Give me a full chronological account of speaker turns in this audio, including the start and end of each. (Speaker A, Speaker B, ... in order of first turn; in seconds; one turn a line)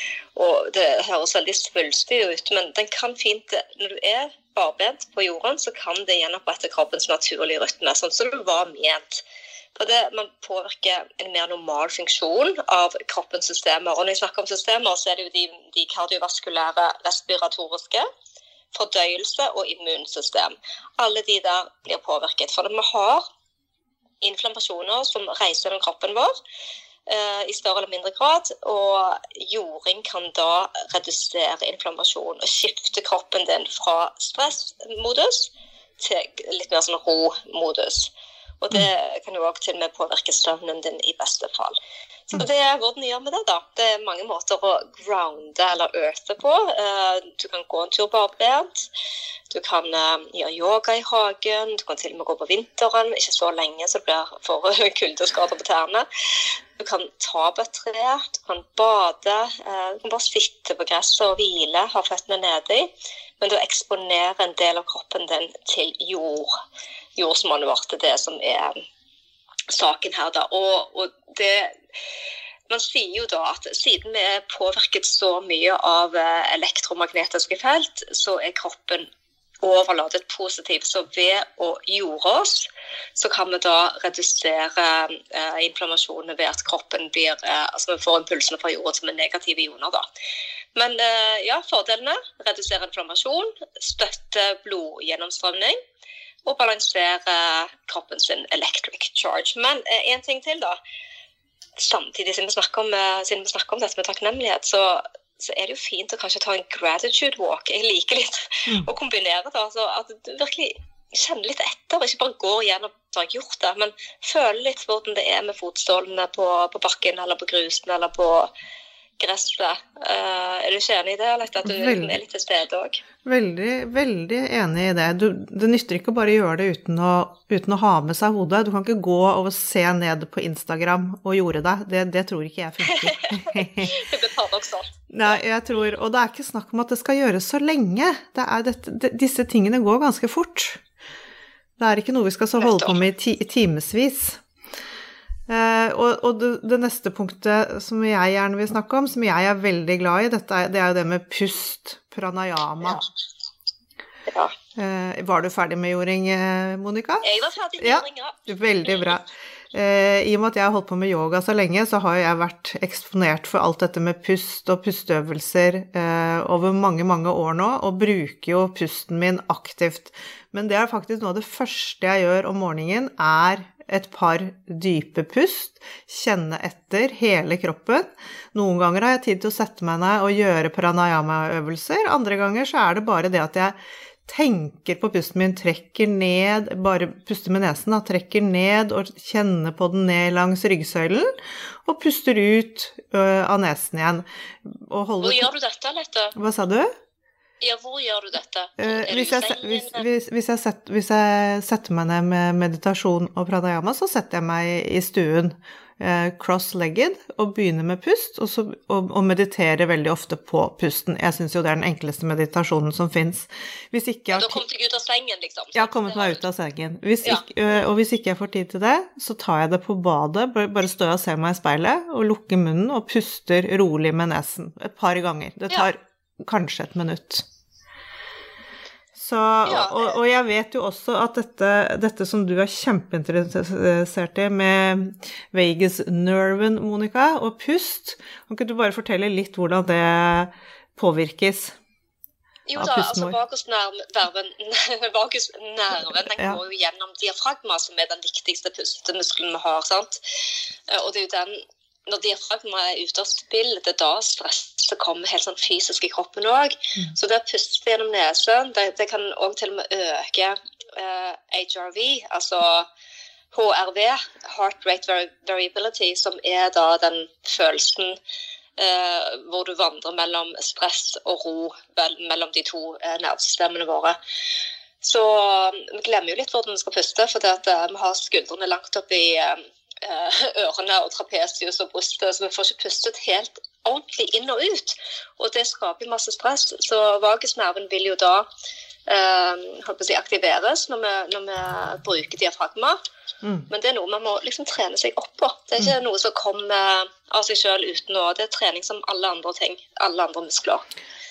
Speaker A: 0.3-9.2
Speaker A: 9.8-18.1
Speaker A: 18.7-23.2
Speaker A: 24.2-26.3
Speaker A: 27.1-38.1
Speaker A: 38.6-41.8
Speaker A: 42.3-48.9
Speaker A: 49.5-56.1
Speaker A: 56.8-62.9
Speaker A: 63.4-66.5
Speaker A: 67.2-68.8
Speaker A: 69.7-71.8
Speaker A: 72.7-79.1
Speaker A: 79.6-90.0
Speaker A: 90.8-95.8
Speaker A: 96.5-100.8
Speaker A: 101.8-118.5
Speaker A: 119.2-123.0
Speaker B: 121.7-122.2
Speaker B: 123.2-134.0
Speaker A: 132.8-135.4
Speaker B: 135.1-140.8
Speaker B: 141.8-144.4
Speaker A: 142.6-143.1
Speaker B: 145.5-153.0
Speaker A: 154.3-154.5
Speaker B: 154.8-191.3
Speaker A: 157.2-159.2
Speaker B: 191.8-195.5
Speaker A: 195.2-196.3
Speaker B: 196.4-196.9
Speaker A: 197.6-200.1
Speaker B: 198.8-214.6
Speaker A: 214.3-216.4
Speaker B: 215.7-227.4
Speaker B: 229.2-241.8
Speaker A: 229.7-230.2
Speaker A: 242.7-250.2
Speaker B: 242.8-243.4
Speaker A: 250.9-262.9
Speaker A: 263.5-268.2
Speaker A: 268.8-274.2
Speaker A: 275.0-288.5
Speaker A: 289.1-293.0
Speaker B: 293.4-293.7
Speaker A: 293.7-300.9